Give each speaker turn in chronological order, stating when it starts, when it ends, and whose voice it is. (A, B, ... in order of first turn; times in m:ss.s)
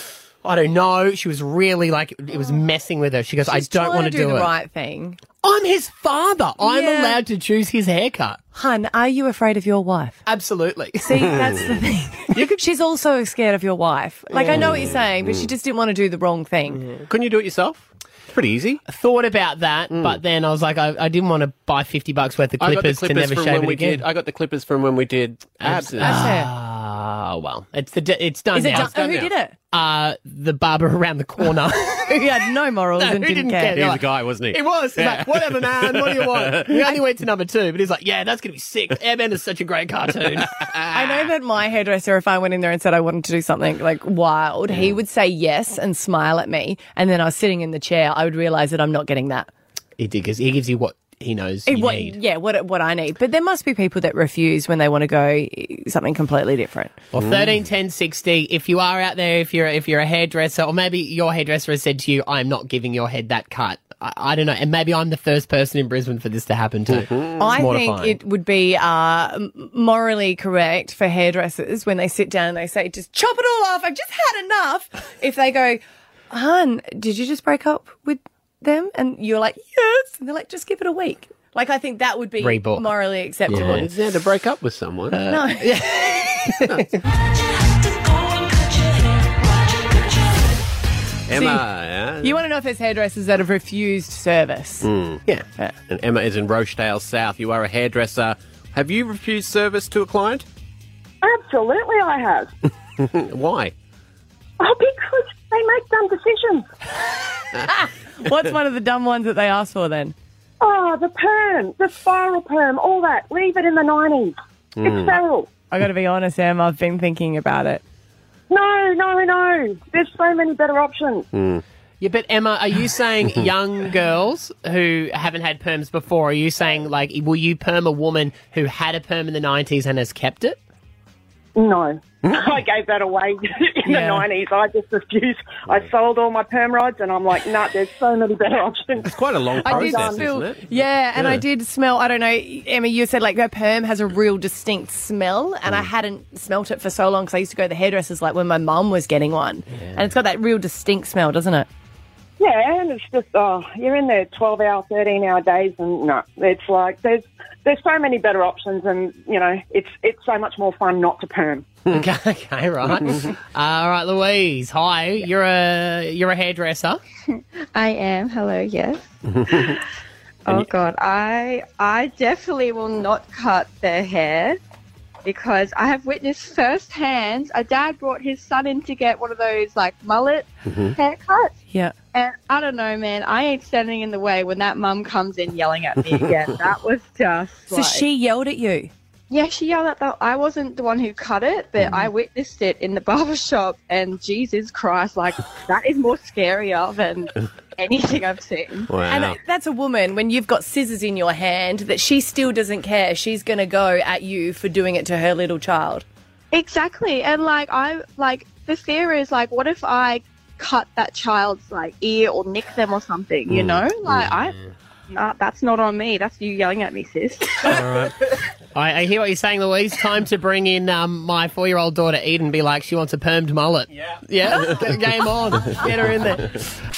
0:00.4-0:04.5 A
0:03.4-0:05.2 B
0:05.4-0:08.4 A
0:06.6-0:07.2 B
0:08.5-0:10.2 B
0:10.3-0:11.4 A
0:11.0-0:16.8 B
0:14.5-0:15.5 C
0:17.1-0:18.8 C
0:18.9-0:24.0 A
0:22.6-0:26.3 C
0:25.6-0:29.2 A
0:26.0-0:26.5 B
0:28.5-0:29.6 B
0:28.7-0:29.3 C
0:29.7-0:40.7 A
0:32.1-0:33.8 B
0:33.7-0:36.9 C
0:40.9-0:49.5 B
0:50.0-0:52.2 A
0:51.7-0:57.0 B
0:57.1-1:08.2 A
0:57.1-0:57.5 C
1:06.9-1:07.4 C
1:07.4-1:23.8 B
1:22.4-1:22.9 A
1:23.5-1:23.9 A
1:23.5-1:25.2 C
1:25.1-1:27.0 A
1:25.3-1:26.3 B
1:31.3-1:32.4 C
1:31.3-1:31.6 B
1:32.2-1:34.9 B
1:34.8-1:35.2 C
1:35.9-1:40.5 C
1:41.2-1:42.5 D
1:43.0-1:43.7 C
1:44.6-1:46.7 D
1:47.6-1:50.2 B
1:50.6-1:55.5 D
1:54.8-1:55.2 C
1:55.7-1:57.8 B
1:58.5-2:01.3 D
2:01.3-2:01.6 C
2:02.0-2:10.6 A
2:11.6-2:19.1 D
2:13.9-2:14.2 B
2:19.0-2:21.4 C
2:19.6-2:31.7 B
2:19.8-2:20.2 D
2:32.4-2:41.7 D
2:41.9-2:47.0 A
2:47.7-2:49.8 E
2:49.3-2:49.8 C
2:50.5-2:54.6 E
2:55.2-3:01.5 E
3:00.7-3:01.0 C
3:02.1-3:08.0 E
3:07.7-3:08.9 B
3:09.3-3:18.9 E
3:18.9-3:19.4 C
3:19.1-3:26.0 B
3:26.5-3:34.6 E
3:33.5-3:34.1 C
3:35.1-3:37.8 E
3:37.6-3:38.1 A
3:38.7-3:46.6 A